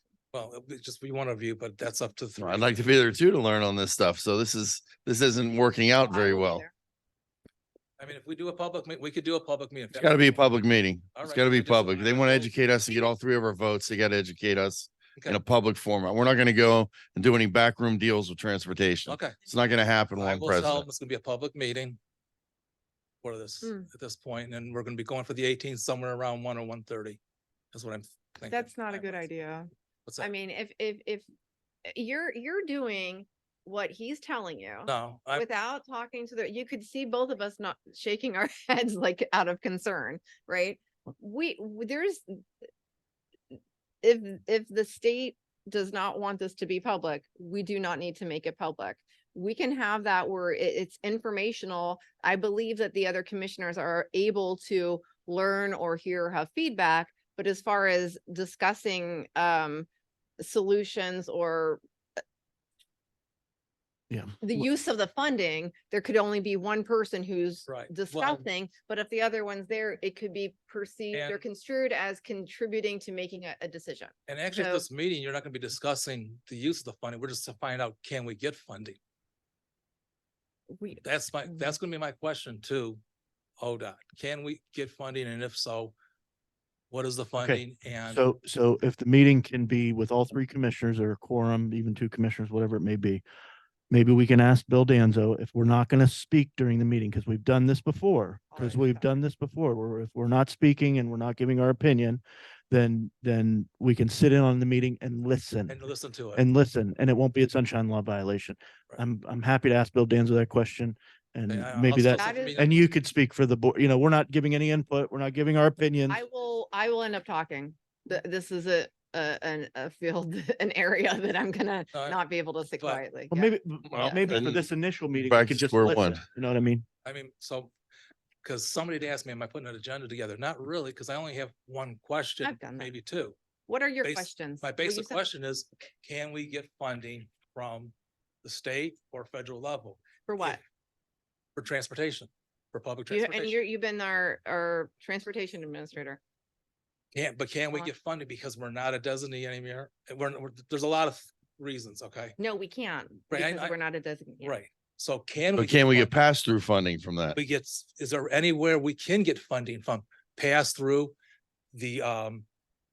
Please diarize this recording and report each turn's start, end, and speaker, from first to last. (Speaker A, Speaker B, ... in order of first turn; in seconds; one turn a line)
Speaker A: 0.3-2.8
Speaker B: 2.4-6.6
Speaker C: 6.0-6.7
Speaker A: 8.0-10.4
Speaker B: 9.9-20.9
Speaker A: 11.1-12.5
Speaker A: 19.1-19.4
Speaker A: 20.2-22.0
Speaker A: 23.2-27.2
Speaker C: 23.6-23.9
Speaker A: 27.7-29.3
Speaker C: 28.5-31.3
Speaker C: 31.9-42.4
Speaker A: 34.9-35.5
Speaker C: 44.0-59.9
Speaker C: 60.4-61.8
Speaker D: 64.1-64.6
Speaker C: 64.4-74.8
Speaker A: 67.7-68.4
Speaker A: 71.1-71.4
Speaker A: 74.3-79.0
Speaker C: 80.7-81.8
Speaker A: 81.0-83.0
Speaker A: 83.6-85.9
Speaker A: 86.9-88.2
Speaker D: 87.4-93.2
Speaker D: 93.9-105.8
Speaker C: 98.5-99.1
Speaker A: 105.7-106.5
Speaker D: 106.3-116.2
Speaker A: 111.5-112.8
Speaker C: 112.1-112.7
Speaker C: 116.1-124.2
Speaker D: 123.3-126.8
Speaker B: 123.9-124.6
Speaker B: 125.2-126.2
Speaker A: 127.0-127.7
Speaker A: 128.4-133.3
Speaker C: 132.4-132.9
Speaker C: 133.7-135.3
Speaker A: 134.0-137.9
Speaker A: 138.4-140.6
Speaker C: 140.3-140.6
Speaker A: 141.6-143.6
Speaker C: 143.1-146.2
Speaker A: 147.2-152.4
Speaker C: 152.4-154.6
Speaker A: 153.3-153.8
Speaker A: 154.4-156.1
Speaker B: 155.6-157.4
Speaker A: 157.3-161.2
Speaker A: 161.7-162.4